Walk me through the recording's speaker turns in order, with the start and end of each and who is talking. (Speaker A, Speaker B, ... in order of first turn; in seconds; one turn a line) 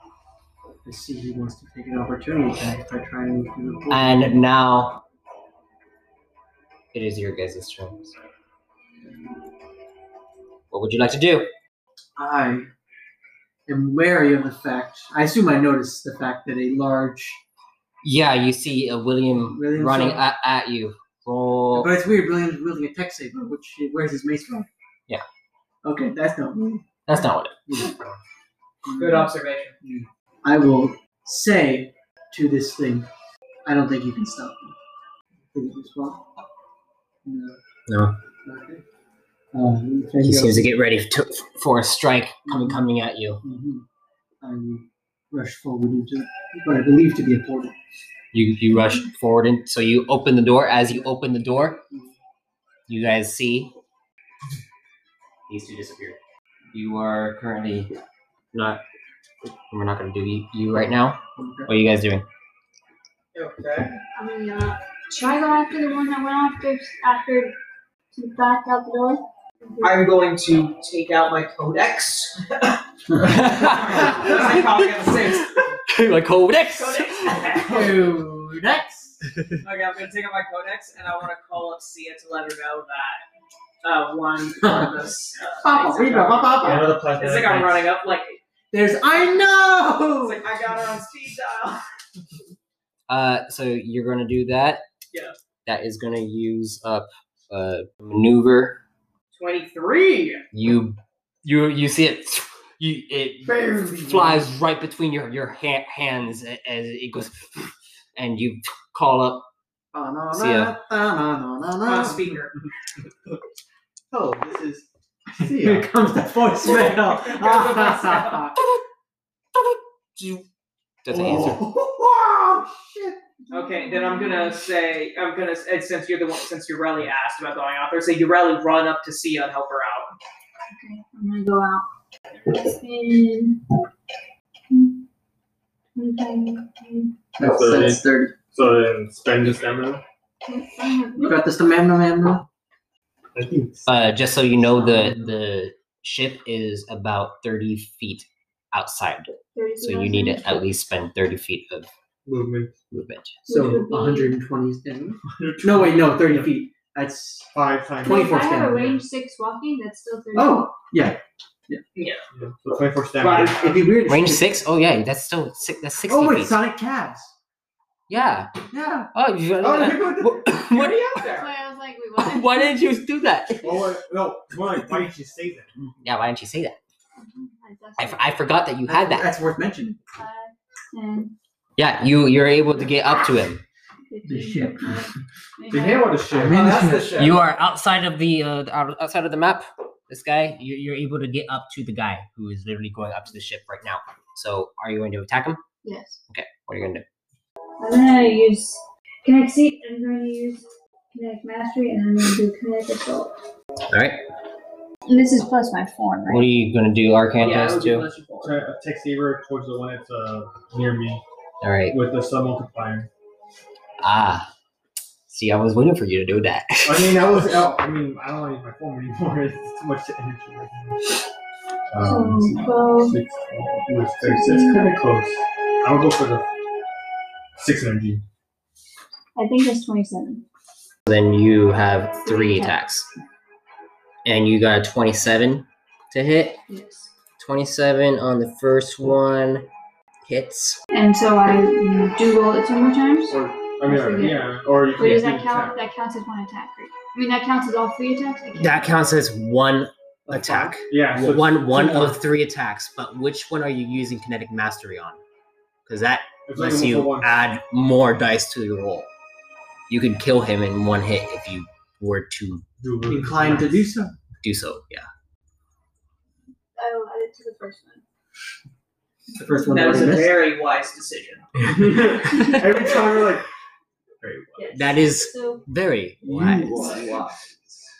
Speaker A: 0.8-4.3
Speaker B: 3.9-5.0
Speaker B: 6.9-8.1
Speaker A: 9.0-9.4
Speaker B: 10.7-11.5
Speaker A: 12.2-12.7
Speaker A: 13.7-17.4
Speaker B: 18.0-21.9
Speaker A: 19.4-20.2
Speaker A: 21.7-24.7
Speaker A: 25.8-28.0
Speaker B: 27.1-27.6
Speaker C: 27.9-28.2
Speaker A: 28.9-33.1
Speaker D: 29.0-29.8
Speaker A: 33.6-34.8
Speaker A: 35.5-36.2
Speaker A: 37.2-37.6
Speaker B: 37.9-38.2
Speaker A: 38.5-38.8
Speaker A: 39.5-40.7
Speaker B: 40.2-43.4
Speaker A: 42.5-42.9
Speaker A: 43.4-43.9
Speaker A: 44.4-47.8
Speaker B: 48.3-51.8
Speaker B: 52.9-53.8
Speaker B: 55.5-56.2
Speaker B: 56.7-57.9
Speaker B: 58.5-58.8
Speaker B: 59.5-62.2
Speaker A: 61.4-61.7
Speaker D: 63.3-64.0
Speaker E: 64.2-67.6
Speaker E: 68.1-70.0
Speaker D: 69.8-75.6
Speaker B: 73.2-77.5
Speaker D: 76.7-78.0
Speaker A: 77.5-79.2
Speaker D: 79.6-83.2
Speaker D: 83.8-88.4
Speaker A: 85.6-86.9
Speaker C: 86.6-87.9
Speaker A: 88.7-90.4
Speaker D: 90.2-91.8
Speaker B: 93.1-94.8
Speaker B: 95.7-98.8
Speaker D: 99.3-100.4
Speaker B: 100.5-109.5
Speaker A: 103.5-104.5
Speaker A: 109.9-112.2
Speaker B: 110.3-110.8
Speaker D: 111.8-112.5
Speaker C: 114.1-114.9
Speaker A: 115.3-118.6
Speaker C: 115.4-115.9
Speaker D: 116.6-118.5
Speaker B: 121.0-121.6
Speaker C: 121.1-121.7
Speaker A: 121.1-123.2
Speaker E: 123.4-124.6
Speaker D: 123.5-130.2
Speaker E: 130.7-131.8
Speaker E: 132.4-133.6
Speaker E: 136.0-137.1
Speaker A: 137.4-138.4
Speaker C: 137.4-140.0
Speaker E: 140.4-141.4
Speaker A: 141.2-142.5
Speaker C: 143.3-143.9
Speaker B: 143.9-151.9
Speaker A: 144.6-145.3
Speaker E: 149.6-150.7
Speaker C: 152.3-152.7
Speaker B: 152.9-153.4
Speaker E: 153.4-154.4
Speaker A: 153.5-157.5
Speaker C: 155.3-156.5
Speaker C: 157.5-159.0
Speaker E: 158.0-160.7
Speaker A: 158.1-158.9
Speaker A: 160.3-161.8
Speaker D: 162.0-162.2
Speaker C: 162.3-163.8
Speaker A: 163.2-164.6
Speaker B: 164.1-166.6
Speaker A: 166.1-167.3
Speaker B: 168.1-168.5
Speaker A: 168.7-169.1
Speaker B: 169.1-171.2
Speaker C: 169.6-170.4
Speaker D: 170.4-171.5
Speaker E: 171.2-172.9
Speaker B: 172.2-173.9
Speaker C: 173.6-175.7
Speaker B: 175.8-176.8
Speaker E: 177.2-178.4
Speaker B: 178.0-179.3
Speaker A: 178.9-180.0
Speaker E: 180.2-181.3
Speaker B: 181.8-183.6
Speaker E: 184.1-186.2
Speaker A: 184.2-185.1
Speaker C: 185.7-186.9
Speaker A: 186.3-187.3
Speaker D: 186.5-187.3
Speaker B: 187.2-195.6
Speaker E: 195.8-196.2
Speaker B: 196.3-197.1
Speaker E: 197.8-203.3
Speaker B: 203.9-204.2
Speaker E: 205.1-206.5
Speaker B: 206.3-208.1
Speaker D: 207.4-208.6
Speaker C: 208.4-211.2
Speaker B: 211.6-212.0
Speaker C: 211.9-213.1
Speaker B: 214.0-214.5
Speaker B: 215.3-217.5
Speaker C: 216.8-221.1
Speaker C: 221.9-226.5
Speaker E: 222.0-223.2
Speaker E: 224.2-224.9
Speaker C: 227.6-228.2
Speaker E: 229.4-230.4
Speaker B: 231.1-233.1
Speaker E: 232.2-232.8
Speaker B: 234.2-236.6
Speaker E: 236.7-237.1
Speaker B: 237.4-239.7
Speaker B: 240.2-240.8
Speaker E: 240.9-248.9
Speaker C: 243.3-245.8
Speaker B: 248.6-255.2
Speaker C: 250.3-252.2
Speaker B: 255.9-259.1
Speaker C: 256.5-257.4
Speaker B: 259.9-262.6
Speaker C: 262.8-263.8
Speaker A: 263.1-264.1
Speaker B: 264.4-265.1
Speaker E: 266.8-268.0
Speaker A: 269.3-270.4
Speaker D: 269.7-271.8
Speaker C: 271.6-273.5
Speaker B: 272.3-272.8
Speaker E: 272.3-272.8
Speaker C: 274.2-274.8
Speaker E: 274.6-275.6
Speaker B: 274.7-276.9
Speaker A: 276.2-277.3
Speaker D: 276.7-277.4